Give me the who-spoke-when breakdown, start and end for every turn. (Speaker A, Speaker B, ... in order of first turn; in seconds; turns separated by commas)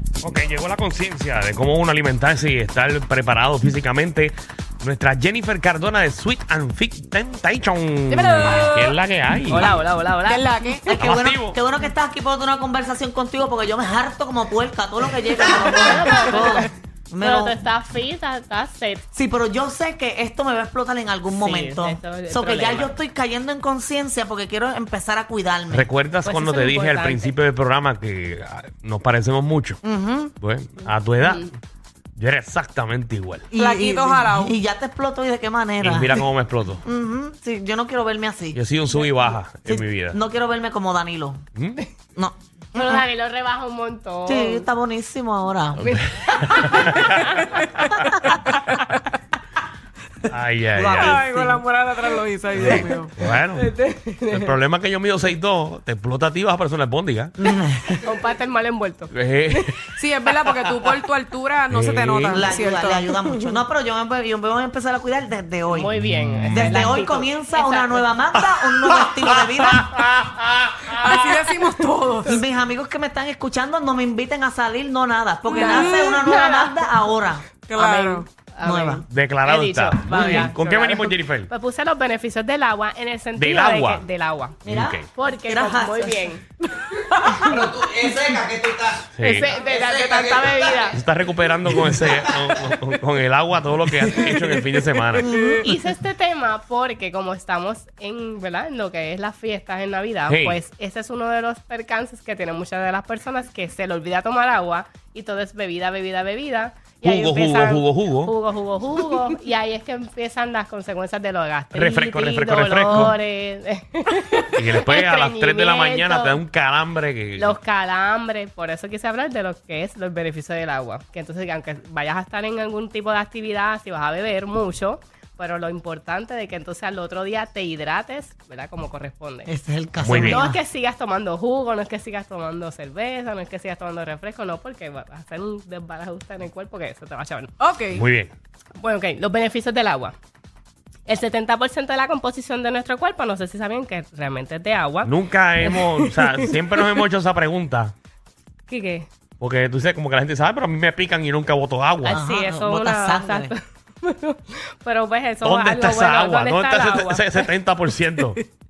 Speaker A: 0.2-9.7, Speaker B: 8.1-9.0, Speaker C: 9.5-10.5, Speaker B: 10.2-10.9, Speaker D: 10.8-17.6, Speaker A: 11.0-11.6, Speaker C: 15.6-16.7, Speaker C: 17.2-19.0, Speaker D: 19.1-25.9, Speaker C: 21.3-22.9, Speaker A: 25.7-29.8, Speaker C: 26.2-27.4, Speaker D: 29.8-30.3, Speaker A: 30.4-31.5, Speaker C: 31.2-31.5, Speaker A: 32.1-33.5, Speaker D: 33.5-36.2, Speaker B: 33.5-34.5, Speaker A: 35.8-36.8, Speaker D: 36.8-38.6, Speaker A: 38.5-40.2, Speaker D: 39.6-41.4, Speaker A: 41.5-41.8, Speaker D: 42.1-43.0, Speaker C: 42.7-44.7, Speaker D: 44.3-45.9, Speaker A: 45.8-47.5, Speaker C: 45.8-47.6, Speaker B: 47.6-47.8, Speaker B: 48.4-48.8, Speaker A: 50.3-51.2, Speaker D: 50.7-51.6, Speaker B: 51.0-53.1, Speaker A: 52.5-53.7, Speaker C: 53.5-54.5, Speaker A: 54.3-57.3, Speaker D: 57.4-58.1, Speaker C: 58.0-59.8, Speaker A: 59.1-59.8, Speaker B: 59.9-63.2, Speaker A: 61.7-62.5, Speaker D: 62.3-65.9, Speaker C: 65.7-68.0, Speaker A: 66.0-66.8, Speaker D: 66.5-69.9, Speaker A: 68.4-71.2, Speaker B: 71.0-72.4, Speaker D: 72.2-77.5, Speaker B: 75.5-76.2, Speaker C: 75.5-76.7, Speaker B: 77.7-78.3, Speaker C: 77.7-84.6, Speaker D: 78.6-79.0, Speaker A: 79.1-81.5, Speaker A: 83.3-84.0, Speaker A: 84.6-85.1, Speaker D: 84.6-86.3, Speaker C: 85.1-86.4, Speaker B: 86.7-87.6, Speaker D: 87.5-88.0, Speaker E: 87.5-89.1, Speaker A: 89.1-89.6, Speaker C: 89.2-91.0, Speaker E: 89.6-91.0, Speaker A: 90.9-95.3, Speaker B: 95.2-95.6, Speaker C: 95.6-116.4, Speaker A: 100.3-100.6, Speaker A: 107.0-108.3, Speaker A: 111.7-113.1, Speaker A: 114.5-117.6, Speaker C: 117.4-129.5, Speaker D: 129.4-130.6, Speaker A: 130.0-130.4, Speaker C: 130.1-137.5, Speaker B: 137.6-138.0, Speaker A: 137.9-138.3, Speaker C: 138.8-140.1, Speaker C: 141.1-147.0, Speaker A: 145.0-147.9, Speaker C: 148.7-149.1, Speaker A: 149.4-152.2, Speaker C: 152.0-157.5, Speaker D: 152.1-153.5, Speaker A: 155.4-158.4